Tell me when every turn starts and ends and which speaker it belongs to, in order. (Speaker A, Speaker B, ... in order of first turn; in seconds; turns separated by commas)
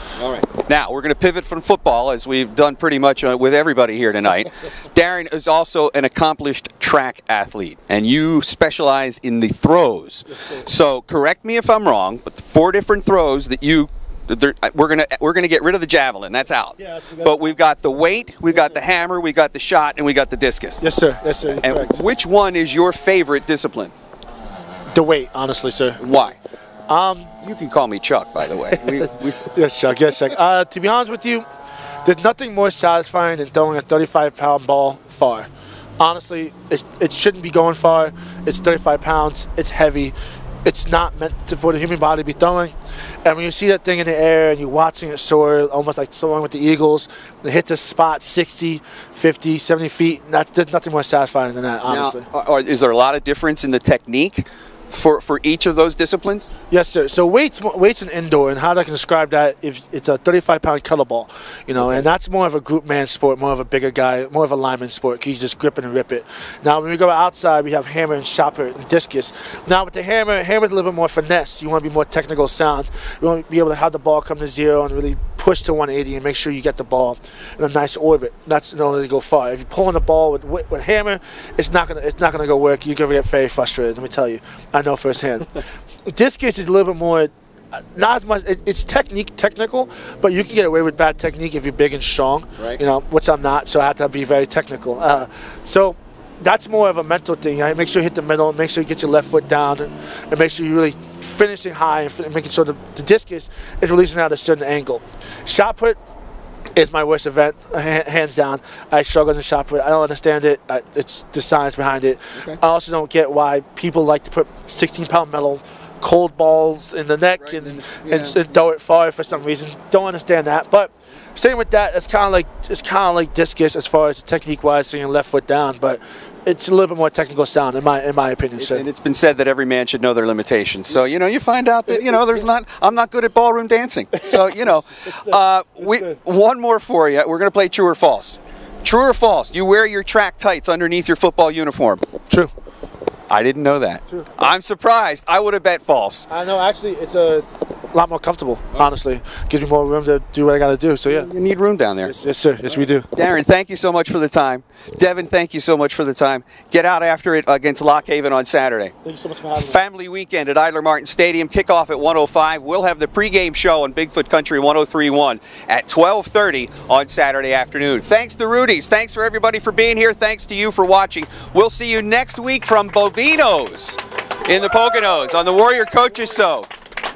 Speaker A: 0.2-20.8, Speaker B: 10.3-10.6, Speaker B: 16.8-17.4, Speaker B: 18.5-18.8, Speaker B: 20.8-22.0, Speaker A: 21.5-23.9, Speaker B: 24.9-26.0, Speaker A: 26.0-26.4, Speaker B: 26.9-27.3, Speaker A: 27.4-29.4, Speaker B: 28.9-31.5, Speaker B: 32.0-42.7, Speaker B: 43.2-52.2, Speaker A: 51.9-56.5, Speaker B: 56.7-87.3, Speaker B: 87.9-106.0, Speaker B: 106.8-128.8, Speaker A: 117.4-118.4, Speaker A: 128.6-142.0, Speaker B: 131.9-132.2, Speaker B: 135.1-136.2, Speaker A: 143.3-146.3, Speaker B: 146.3-151.3, Speaker A: 151.1-152.1, Speaker B: 152.0-153.1, Speaker A: 153.1-158.9, Speaker B: 159.0-159.8, Speaker A: 159.5-176.7